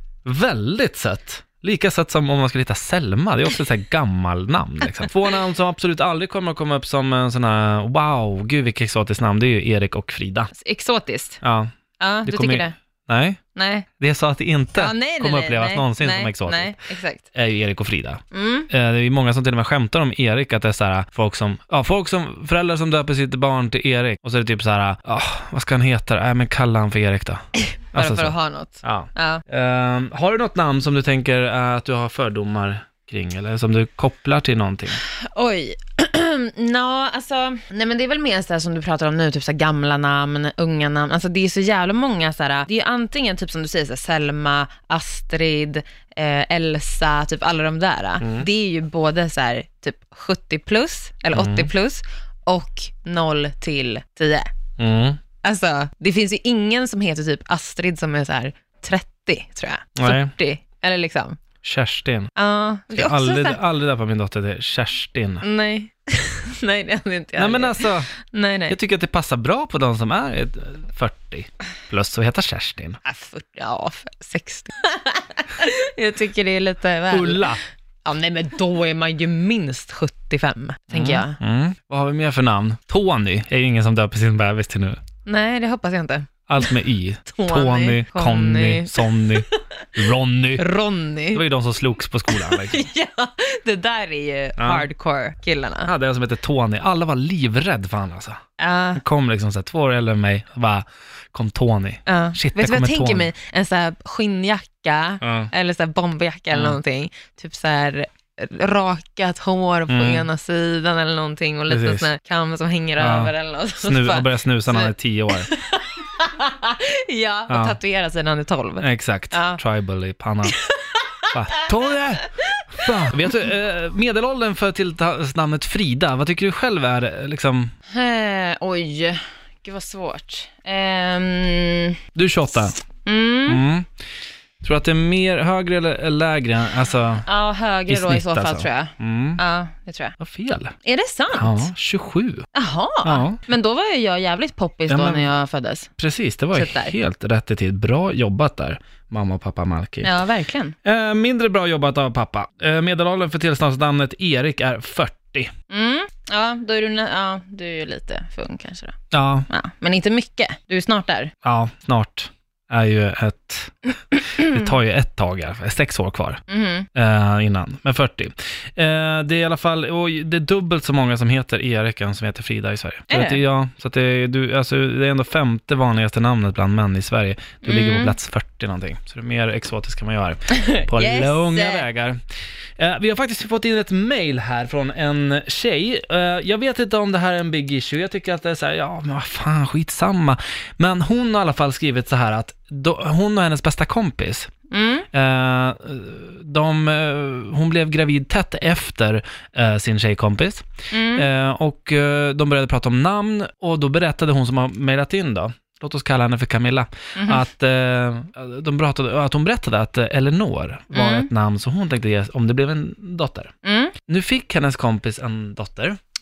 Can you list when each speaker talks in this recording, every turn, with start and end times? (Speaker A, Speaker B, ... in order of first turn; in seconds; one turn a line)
Speaker A: 0.2-10.5
Speaker B: 10.5-11.4
Speaker A: 11.4-11.7
Speaker B: 12.0-12.7
Speaker A: 12.2-13.4
Speaker B: 13.6-13.9
Speaker A: 14.0-16.8
Speaker B: 14.7-17.2
Speaker A: 17.3-27.4
Speaker B: 18.3-18.7
Speaker B: 27.6-29.4
Speaker A: 27.9-35.0
Speaker B: 35.0-54.5
Speaker A: 48.2-48.5
Speaker A: 51.3-51.7
Speaker A: 54.8-55.2
Speaker B: 55.4-61.4
Speaker A: 60.0-60.3
Speaker A: 61.6-62.3
Speaker B: 62.4-63.6
Speaker A: 62.9-65.5
Speaker B: 65.4-68.8
Speaker A: 67.4-68.1
Speaker A: 68.7-73.0
Speaker B: 73.0-81.4
Speaker A: 77.1-77.6
Speaker A: 80.9-85.0
Speaker B: 85.3-86.8
Speaker A: 86.5-90.7
Speaker B: 87.3-89.9
Speaker B: 90.6-91.4
Speaker A: 91.3-92.9
Speaker B: 92.3-95.9
Speaker A: 94.6-94.9
Speaker A: 95.8-98.4
Speaker B: 98.6-99.0
Speaker A: 99.0-103.3
Speaker B: 102.1-119.6
Speaker A: 105.2-105.5
Speaker A: 106.5-106.8
Speaker A: 109.9-110.3
Speaker A: 111.7-112.1
Speaker A: 113.0-115.5
Speaker A: 117.5-117.8
Speaker A: 118.8-120.6
Speaker B: 120.5-121.7
Speaker A: 121.3-127.7
Speaker B: 122.3-123.3
Speaker B: 127.9-132.0
Speaker A: 132.2-132.8
Speaker B: 133.0-133.6
Speaker A: 133.5-133.9
Speaker A: 134.6-137.3
Speaker B: 137.2-140.2
Speaker A: 137.9-139.4
Speaker A: 140.2-140.8
Speaker B: 140.8-141.7
Speaker A: 141.3-142.5
Speaker B: 142.5-145.9
Speaker A: 143.0-143.4
Speaker A: 144.9-145.3
Speaker A: 146.0-150.2
Speaker B: 146.5-147.0
Speaker B: 150.0-150.8
Speaker A: 150.8-155.5
Speaker B: 155.7-159.0
Speaker A: 159.1-159.5
Speaker B: 159.5-161.3
Speaker A: 161.4-166.4
Speaker B: 166.5-166.9
Speaker A: 166.9-182.2
Speaker B: 173.1-173.4
Speaker B: 177.6-178.2
Speaker B: 180.5-181.9
Speaker A: 182.8-194.5
Speaker B: 194.7-195.1
Speaker A: 195.1-213.5
Speaker B: 200.9-201.3
Speaker B: 207.2-207.4
Speaker B: 210.9-211.3
Speaker B: 213.6-213.9
Speaker A: 214.1-216.0